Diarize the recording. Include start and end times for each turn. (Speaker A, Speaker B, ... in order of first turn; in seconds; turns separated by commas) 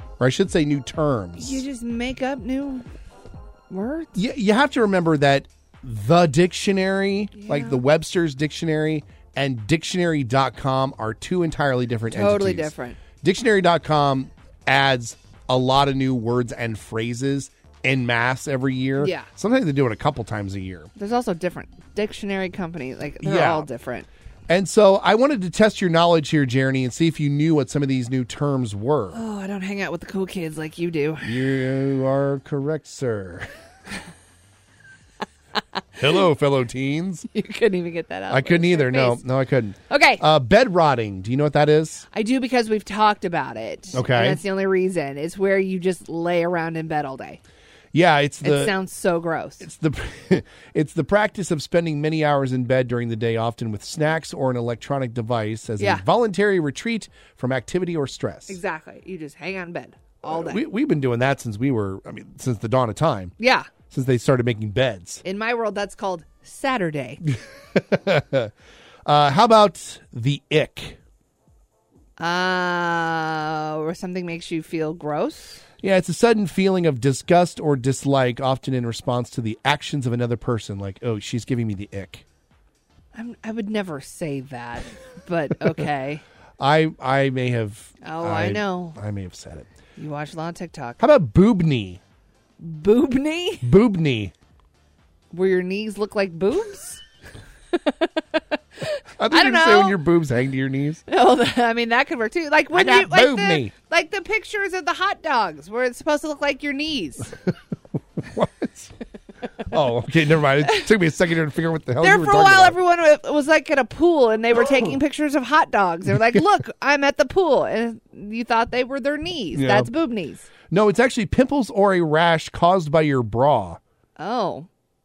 Speaker A: 0.2-1.6, Speaker B: 1.4-2.9, Speaker B: 3.7-4.1, Speaker A: 4.1-20.9, Speaker B: 7.4-7.8, Speaker B: 12.1-13.0, Speaker B: 19.0-19.3, Speaker B: 21.0-24.1, Speaker A: 23.2-23.7, Speaker A: 24.5-29.2, Speaker B: 29.1-31.4, Speaker A: 31.2-33.5, Speaker A: 36.0-37.3, Speaker B: 37.3-39.2, Speaker A: 38.3-42.1, Speaker B: 39.9-40.2, Speaker B: 42.1-47.4, Speaker A: 43.9-44.4, Speaker A: 47.9-48.7, Speaker B: 48.4-49.6, Speaker A: 49.6-58.6, Speaker B: 55.8-56.0, Speaker B: 58.5-60.6, Speaker A: 60.2-63.3, Speaker B: 63.4-63.7, Speaker A: 63.9-65.2, Speaker B: 65.2-67.2, Speaker A: 67.8-68.5, Speaker A: 69.1-71.0, Speaker B: 72.2-75.6, Speaker A: 75.8-82.2, Speaker B: 83.1-86.2, Speaker A: 86.6-89.7, Speaker B: 88.0-89.0, Speaker B: 90.0-91.0, Speaker A: 91.0-92.0, Speaker B: 92.6-93.7, Speaker A: 93.6-94.3, Speaker B: 95.3-97.0, Speaker B: 97.7-100.0, Speaker A: 99.2-101.0, Speaker B: 101.1-107.3, Speaker A: 102.7-103.7, Speaker A: 108.2-108.9, Speaker A: 109.7-112.8, Speaker B: 112.0-120.5, Speaker A: 119.5-119.9, Speaker A: 120.7-123.8, Speaker B: 124.2-124.7